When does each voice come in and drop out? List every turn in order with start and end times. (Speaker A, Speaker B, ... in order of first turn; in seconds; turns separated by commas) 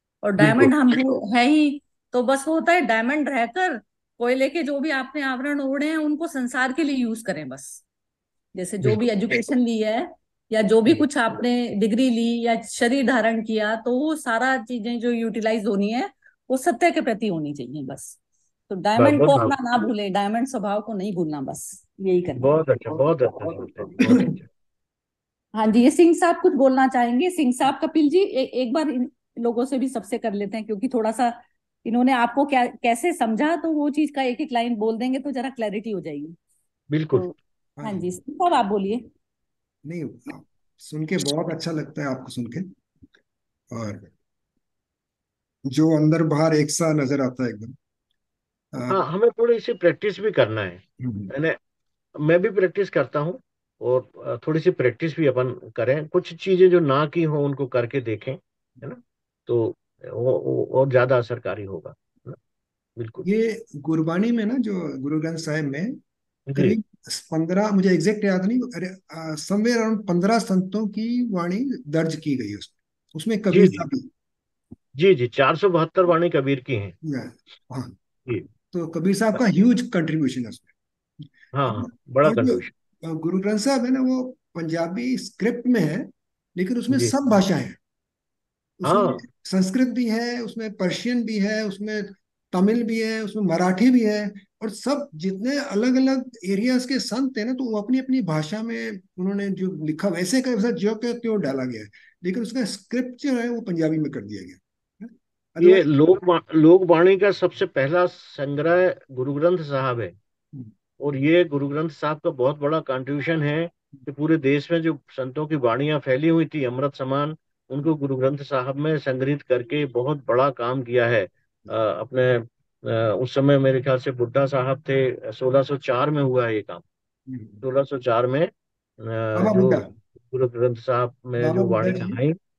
Speaker A: 0.2-7.8, Speaker B: 0.4-0.7, Speaker A: 8.6-18.2, Speaker B: 8.8-9.5, Speaker A: 18.7-23.6, Speaker B: 19.0-19.6, Speaker B: 22.3-24.5, Speaker A: 25.6-36.4, Speaker B: 36.9-37.3, Speaker A: 37.1-39.0, Speaker C: 37.8-38.1, Speaker C: 39.9-42.7, Speaker C: 43.7-44.1, Speaker C: 45.7-47.8, Speaker C: 48.7-49.0, Speaker B: 48.9-51.6, Speaker C: 51.0-51.3, Speaker B: 52.2-62.4, Speaker B: 63.0-63.3, Speaker C: 63.2-66.0, Speaker B: 66.5-66.8, Speaker C: 66.5-74.1, Speaker B: 73.5-73.9, Speaker B: 75.0-77.0, Speaker C: 77.0-78.0, Speaker C: 78.7-80.7, Speaker B: 81.5-82.7, Speaker C: 81.7-87.8, Speaker B: 86.9-87.4, Speaker C: 88.8-105.8, Speaker B: 88.8-89.2, Speaker B: 105.6-110.2, Speaker B: 111.0-126.8, Speaker C: 127.3-127.6, Speaker B: 127.6-132.4, Speaker C: 129.3-130.0, Speaker C: 131.4-132.2